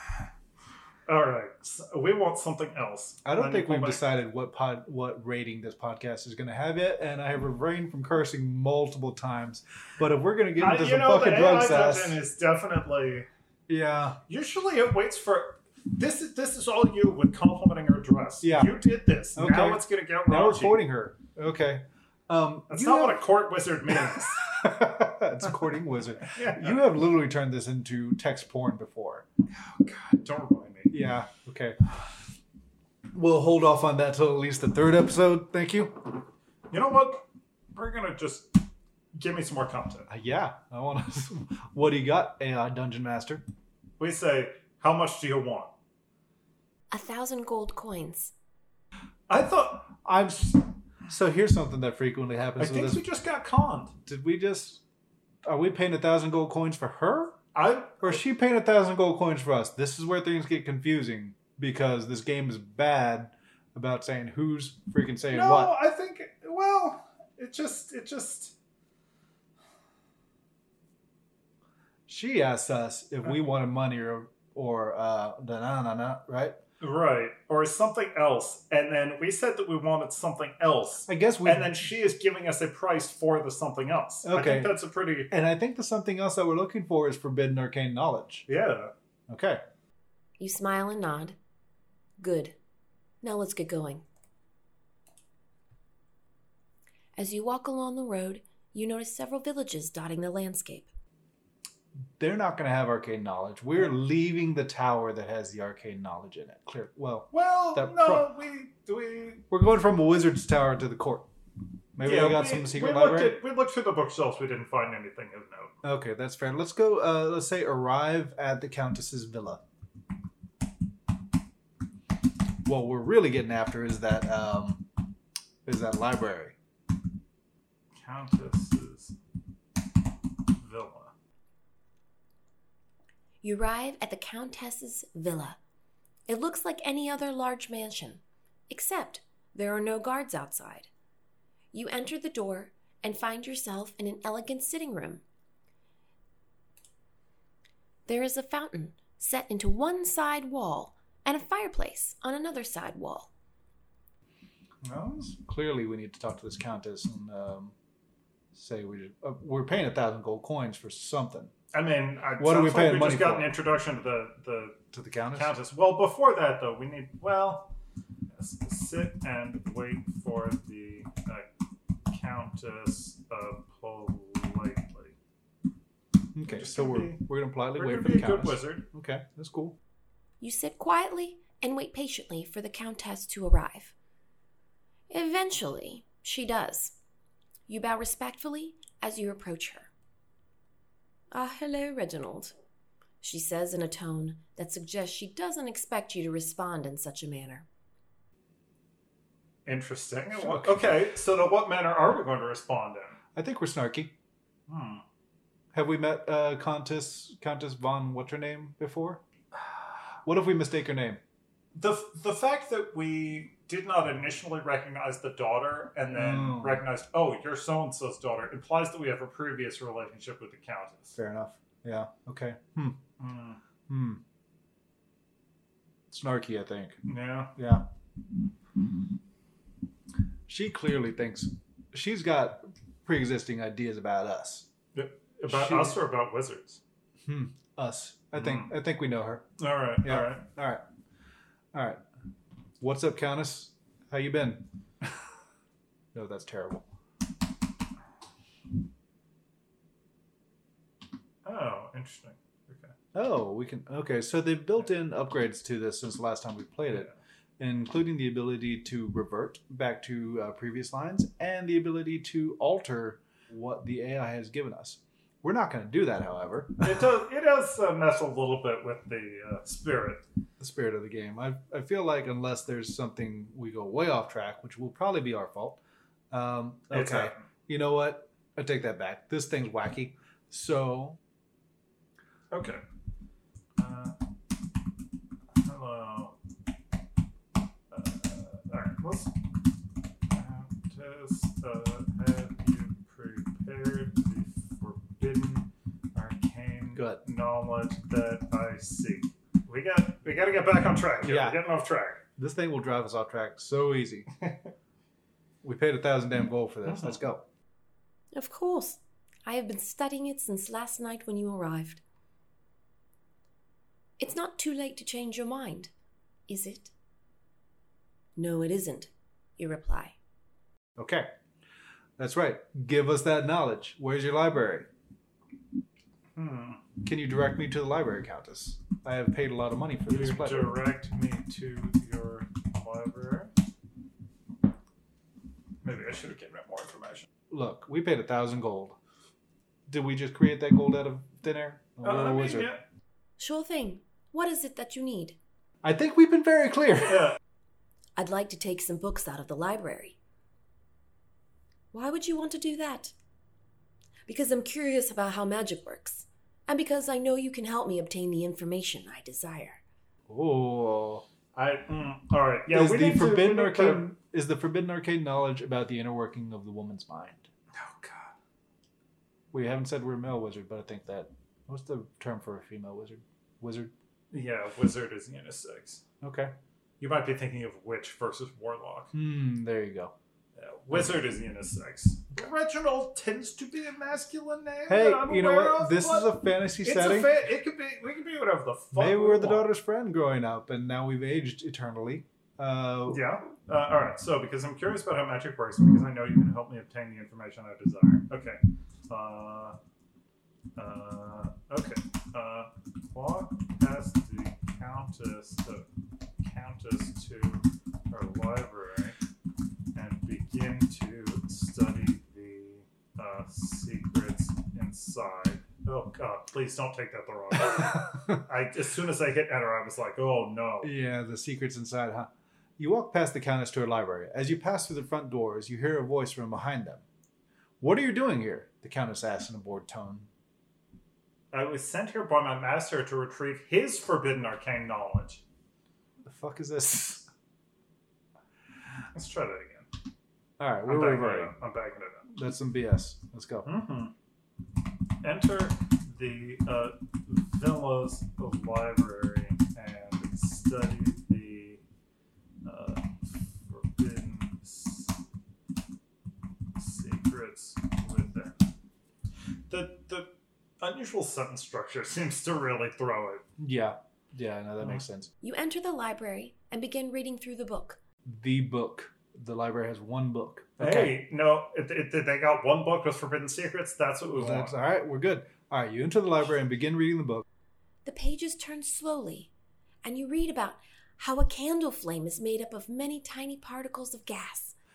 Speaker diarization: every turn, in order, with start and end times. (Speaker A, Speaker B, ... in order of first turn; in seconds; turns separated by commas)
Speaker A: 1.1-4.0, Speaker B: 3.2-12.2, Speaker A: 10.6-13.3, Speaker B: 13.7-14.2, Speaker A: 14.3-20.8, Speaker B: 18.4-18.8, Speaker B: 19.4-23.2, Speaker A: 22.7-24.6, Speaker B: 23.9-29.2, Speaker A: 26.3-26.8, Speaker A: 29.6-30.9, Speaker B: 30.9-31.8, Speaker B: 33.1-36.2, Speaker A: 36.7-38.6, Speaker A: 39.1-40.1, Speaker B: 40.1-43.4, Speaker A: 44.0-45.7, Speaker C: 46.9-48.3, Speaker A: 49.3-50.0, Speaker B: 50.0-53.0, Speaker A: 52.6-54.0, Speaker B: 54.1-54.8, Speaker B: 55.5-57.4, Speaker A: 57.5-58.2, Speaker B: 58.0-65.8, Speaker A: 65.3-68.5, Speaker B: 72.1-76.6, Speaker A: 76.8-85.3, Speaker B: 81.1-81.8, Speaker B: 84.2-88.5, Speaker A: 88.5-88.9, Speaker B: 89.3-89.6, Speaker C: 90.4-91.4, Speaker C: 92.2-92.5, Speaker C: 93.2-94.0, Speaker C: 97.2-100.9, Speaker B: 102.2-108.3, Speaker A: 107.3-109.4, Speaker B: 109.5-111.3, Speaker B: 112.0-113.4, Speaker A: 112.0-115.7, Speaker B: 115.8-119.6, Speaker B: 122.7-124.8, Speaker B: 125.7-126.6, Speaker A: 128.0-129.2, Speaker A: 130.6-131.1, Speaker C: 133.4-135.6, Speaker C: 136.3-140.9, Speaker C: 141.7-145.2, Speaker C: 148.1-153.3, Speaker A: 154.8-155.3, Speaker B: 155.3-157.7, Speaker B: 158.5-161.5, Speaker A: 161.7-167.7, Speaker B: 162.4-163.6, Speaker B: 164.9-165.5, Speaker A: 168.3-171.5, Speaker A: 172.1-175.2, Speaker B: 176.3-179.8, Speaker A: 176.4-178.9, Speaker C: 180.4-183.9, Speaker C: 185.1-187.0, Speaker C: 187.7-189.9, Speaker C: 191.3-192.5, Speaker C: 193.2-197.7, Speaker A: 199.7-203.2, Speaker B: 200.3-200.9, Speaker B: 203.3-204.1, Speaker A: 204.7-205.0, Speaker B: 205.7-209.2, Speaker B: 210.2-211.2, Speaker A: 211.8-221.2, Speaker B: 216.1-216.8, Speaker B: 221.2-223.0, Speaker A: 223.2-223.6, Speaker B: 223.9-224.2, Speaker B: 226.1-227.0, Speaker A: 227.1-227.5, Speaker B: 227.6-227.9, Speaker B: 230.5-234.7, Speaker A: 234.9-236.8, Speaker B: 235.5-236.0, Speaker B: 237.2-239.5, Speaker A: 238.3-238.7, Speaker A: 239.6-240.4, Speaker B: 240.0-240.8, Speaker B: 241.7-242.0, Speaker B: 242.8-245.1, Speaker B: 246.1-246.9, Speaker A: 251.4-252.9, Speaker B: 253.1-267.1, Speaker A: 266.8-270.3, Speaker B: 270.6-275.8, Speaker B: 276.3-281.2, Speaker A: 276.9-277.4, Speaker A: 282.5-282.8, Speaker A: 283.8-284.2, Speaker A: 285.6-286.4, Speaker A: 287.9-289.3, Speaker A: 290.3-302.2, Speaker B: 296.9-297.2, Speaker B: 301.2-301.6, Speaker B: 302.4-304.3, Speaker A: 304.4-304.7, Speaker B: 305.6-307.5, Speaker A: 306.9-307.2, Speaker C: 308.3-312.0, Speaker C: 314.2-315.9, Speaker C: 316.5-316.9, Speaker C: 318.4-320.2, Speaker B: 321.0-321.3, Speaker B: 322.2-324.9, Speaker A: 326.4-326.8, Speaker B: 327.0-330.7, Speaker A: 330.1-333.5, Speaker A: 335.8-337.3, Speaker B: 337.5-339.0, Speaker B: 339.9-342.7, Speaker A: 342.0-342.8, Speaker C: 343.4-345.4, Speaker B: 345.8-347.3, Speaker A: 347.1-347.4, Speaker C: 348.2-350.2, Speaker C: 351.9-353.1, Speaker C: 354.3-359.8, Speaker B: 360.3-361.2, Speaker A: 361.6-364.1, Speaker B: 362.7-367.5, Speaker A: 367.7-368.4, Speaker B: 369.5-373.9, Speaker A: 374.3-376.0, Speaker B: 376.2-376.5, Speaker A: 377.0-379.1, Speaker B: 379.1-380.1, Speaker A: 380.6-389.7, Speaker B: 384.9-387.3, Speaker B: 388.9-393.2, Speaker A: 393.1-399.8, Speaker A: 400.8-405.9, Speaker A: 406.4-409.2, Speaker A: 409.9-420.9, Speaker B: 420.8-427.0, Speaker B: 427.8-430.3, Speaker A: 431.5-435.4, Speaker B: 436.2-437.3, Speaker A: 439.1-439.9, Speaker B: 440.6-441.5, Speaker A: 440.9-442.3, Speaker B: 442.3-443.7, Speaker A: 443.6-444.1, Speaker A: 445.2-451.8, Speaker A: 452.6-455.2, Speaker A: 456.8-458.6, Speaker A: 459.7-463.4, Speaker B: 463.6-465.3, Speaker C: 465.4-468.0, Speaker B: 468.2-471.2, Speaker A: 470.8-474.7, Speaker B: 474.3-477.4, Speaker C: 478.1-479.5, Speaker C: 480.1-484.8